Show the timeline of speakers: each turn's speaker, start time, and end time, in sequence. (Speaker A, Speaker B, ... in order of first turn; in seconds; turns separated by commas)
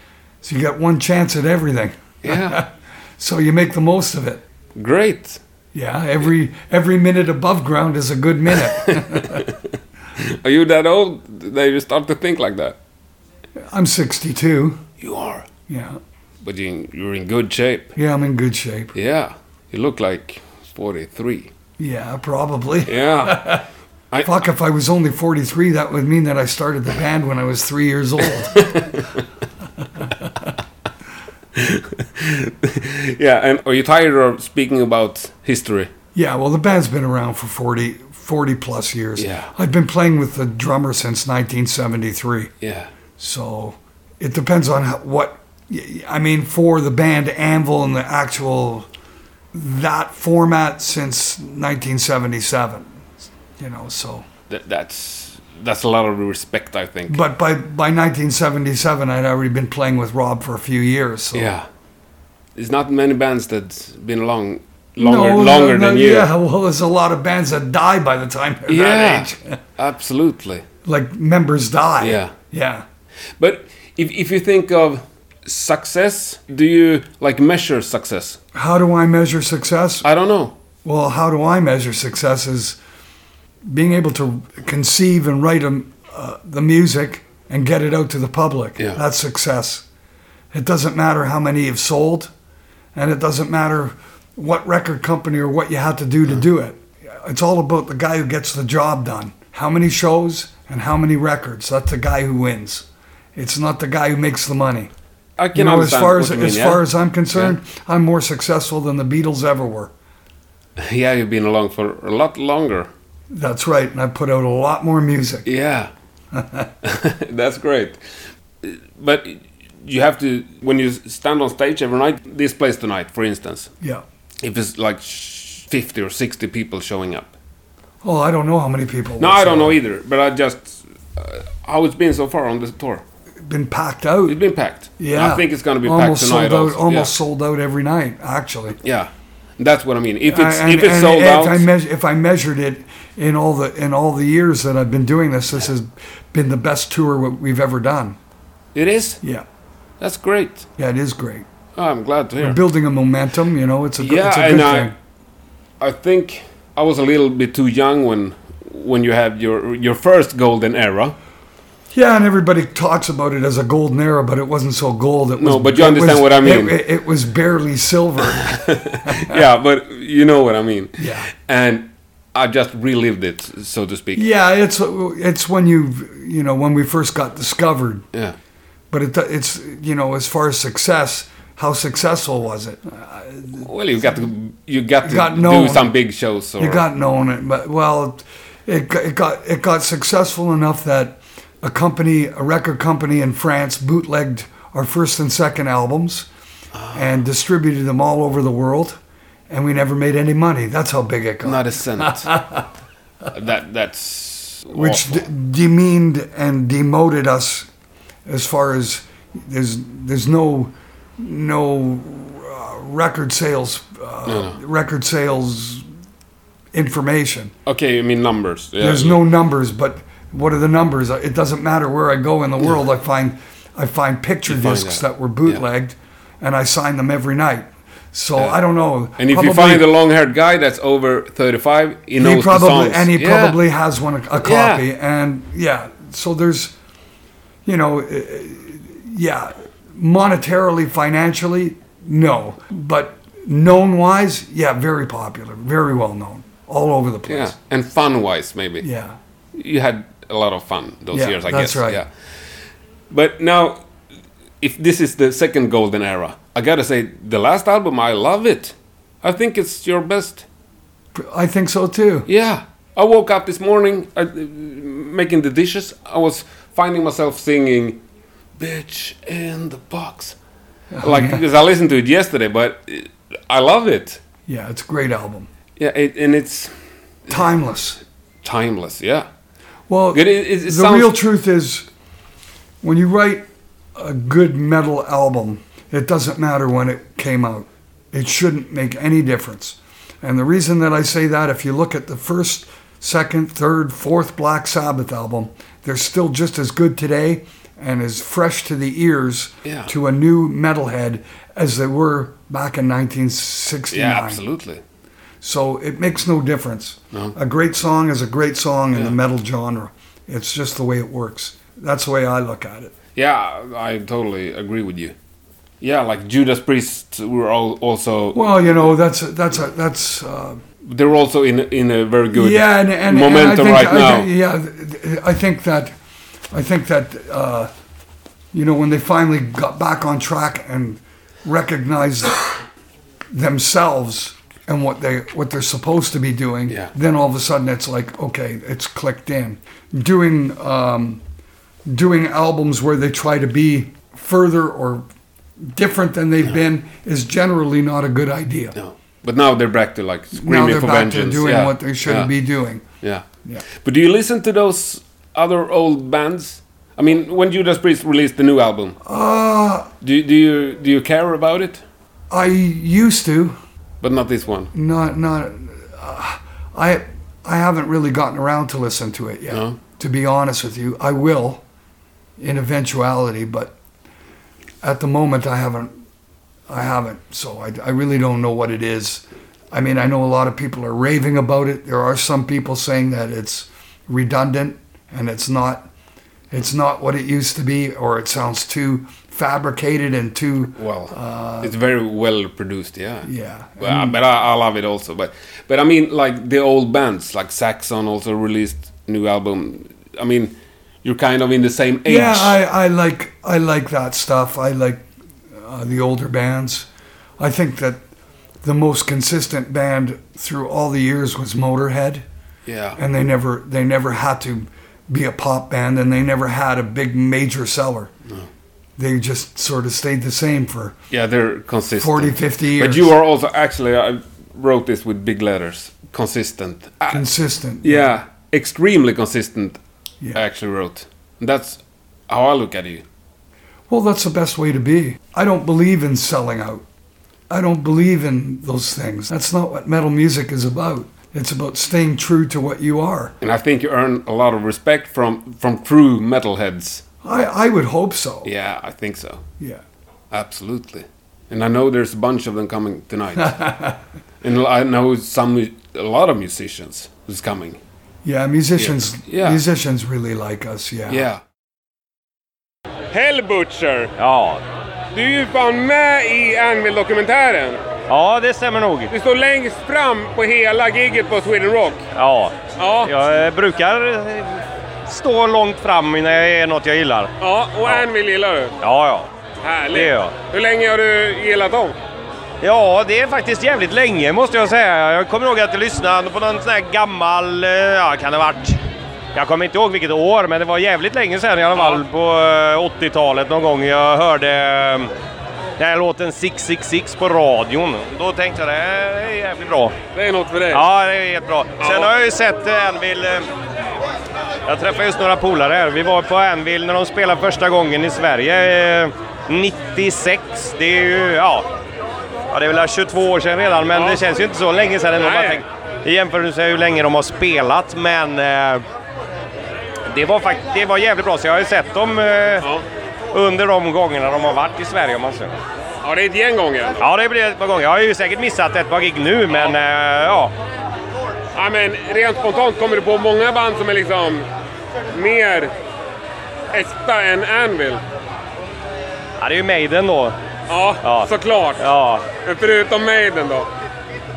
Speaker A: 0.4-4.4, Speaker B: 2.2-2.6, Speaker B: 4.8-5.4, Speaker A: 5.7-9.5, Speaker B: 8.6-12.8, Speaker A: 13.6-14.8, Speaker B: 15.0-15.5, Speaker A: 15.7-16.0, Speaker B: 16.4-17.9, Speaker A: 17.9-18.9, Speaker B: 18.9-21.5, Speaker A: 21.8-23.6, Speaker B: 22.9-23.6, Speaker A: 24.2-28.8, Speaker B: 28.4-29.2, Speaker B: 31.5-35.9, Speaker A: 36.1-42.5, Speaker B: 39.2-39.5, Speaker B: 42.6-42.9, Speaker A: 43.2-48.9, Speaker A: 49.5-53.0, Speaker A: 53.6-54.3, Speaker B: 54.5-57.2, Speaker A: 57.1-61.5, Speaker B: 61.3-61.6, Speaker B: 62.5-66.3, Speaker A: 65.0-69.6, Speaker B: 68.7-70.6, Speaker A: 70.8-72.8, Speaker B: 72.0-72.3, Speaker B: 73.4-78.4, Speaker A: 78.5-80.1, Speaker B: 80.0-80.5, Speaker A: 80.8-82.8, Speaker A: 83.7-89.8, Speaker A: 90.5-92.3, Speaker A: 92.9-104.9, Speaker B: 105.4-107.5, Speaker A: 105.5-109.9, Speaker B: 110.8-112.9, Speaker A: 113.3-115.5, Speaker B: 115.5-115.9, Speaker A: 116.3-116.7, Speaker B: 116.8-118.0, Speaker B: 118.6-123.7, Speaker B: 124.4-127.3, Speaker A: 128.0-129.8, Speaker B: 129.2-133.0, Speaker A: 133.4-134.4, Speaker B: 134.2-137.1, Speaker A: 135.0-138.8, Speaker B: 138.8-141.7, Speaker A: 140.3-148.2, Speaker B: 148.7-149.2, Speaker B: 150.0-150.7, Speaker A: 150.8-151.5, Speaker B: 151.8-152.6, Speaker A: 152.4-154.9, Speaker B: 154.0-154.9, Speaker B: 155.8-161.2, Speaker A: 161.9-169.3, Speaker B: 165.4-166.8, Speaker B: 168.3-174.3, Speaker A: 171.0-171.3, Speaker A: 174.1-178.0, Speaker A: 178.9-183.7, Speaker B: 183.6-186.8, Speaker A: 185.0-185.9, Speaker A: 186.6-196.3, Speaker B: 196.7-197.1, Speaker A: 196.9-202.7, Speaker B: 201.4-202.3, Speaker B: 203.3-205.2, Speaker A: 204.7-207.7, Speaker A: 208.3-215.8, Speaker B: 214.2-214.6, Speaker A: 216.7-217.5, Speaker B: 217.7-219.2, Speaker A: 218.8-229.9, Speaker B: 224.4-225.6, Speaker B: 229.2-233.6, Speaker A: 232.2-236.7, Speaker B: 234.4-234.8, Speaker A: 237.7-247.6, Speaker B: 247.3-248.9, Speaker A: 248.8-249.2, Speaker B: 249.5-252.1, Speaker A: 251.1-252.0, Speaker B: 253.1-253.8, Speaker B: 254.6-260.4, Speaker A: 261.1-262.3, Speaker B: 262.3-268.0, Speaker B: 268.6-270.4, Speaker A: 270.9-271.4, Speaker B: 271.0-274.2, Speaker A: 274.5-275.5, Speaker B: 275.8-276.7, Speaker A: 277.3-278.0, Speaker B: 278.4-279.3, Speaker A: 279.9-281.9, Speaker B: 280.1-281.2, Speaker A: 282.8-304.4, Speaker B: 299.6-299.9, Speaker B: 303.9-304.8, Speaker A: 305.4-312.9, Speaker B: 313.1-315.1, Speaker B: 315.8-318.8, Speaker A: 318.3-320.6, Speaker B: 320.8-324.3, Speaker A: 322.3-325.9, Speaker A: 326.5-327.7, Speaker A: 328.5-332.4, Speaker A: 333.3-341.2, Speaker A: 341.9-345.1, Speaker A: 345.6-348.8, Speaker B: 348.8-352.3, Speaker A: 350.3-352.8, Speaker B: 353.0-359.0, Speaker A: 359.0-359.9, Speaker B: 360.0-361.8, Speaker A: 362.3-363.6, Speaker B: 364.0-364.7, Speaker A: 364.7-371.6, Speaker B: 369.5-369.8, Speaker A: 372.4-373.7, Speaker A: 374.8-375.9, Speaker A: 376.7-385.9, Speaker A: 386.5-391.7, Speaker B: 390.8-393.3, Speaker A: 393.2-394.2, Speaker B: 393.8-402.6, Speaker A: 402.1-406.9, Speaker A: 407.4-408.0, Speaker A: 408.6-412.2, Speaker B: 412.6-413.0, Speaker A: 412.9-418.1, Speaker A: 419.0-420.9, Speaker B: 421.1-427.2, Speaker A: 421.9-423.1, Speaker A: 427.1-428.1, Speaker B: 427.8-429.8, Speaker B: 430.3-433.0, Speaker A: 433.9-436.8, Speaker A: 437.5-443.3, Speaker B: 443.4-447.0, Speaker A: 447.2-448.5, Speaker B: 448.4-449.4, Speaker B: 450.3-453.6, Speaker A: 453.4-454.0, Speaker B: 454.4-457.8, Speaker A: 458.2-461.3, Speaker B: 458.8-459.6, Speaker B: 461.1-461.4, Speaker B: 463.1-464.1, Speaker C: 464.2-464.6, Speaker B: 465.1-467.8, Speaker C: 468.1-469.1, Speaker B: 469.1-472.0, Speaker C: 472.1-477.3, Speaker B: 472.8-473.1, Speaker B: 477.4-478.7, Speaker C: 478.8-479.3, Speaker B: 479.6-482.0, Speaker C: 479.9-480.3, Speaker C: 482.6-488.8, Speaker C: 489.3-495.1, Speaker B: 491.7-492.0, Speaker C: 495.8-499.9, Speaker B: 500.1-500.9, Speaker C: 500.7-503.4, Speaker B: 501.8-502.1, Speaker C: 504.6-511.6, Speaker C: 512.5-518.8, Speaker B: 513.9-514.4, Speaker B: 515.2-515.6, Speaker C: 520.1-522.7, Speaker C: 523.3-525.5, Speaker B: 526.0-527.0, Speaker C: 527.0-530.5, Speaker B: 531.5-534.5, Speaker B: 535.1-535.7, Speaker B: 536.7-538.0, Speaker C: 539.4-540.3, Speaker B: 540.7-541.8, Speaker C: 541.0-542.3, Speaker B: 542.4-543.7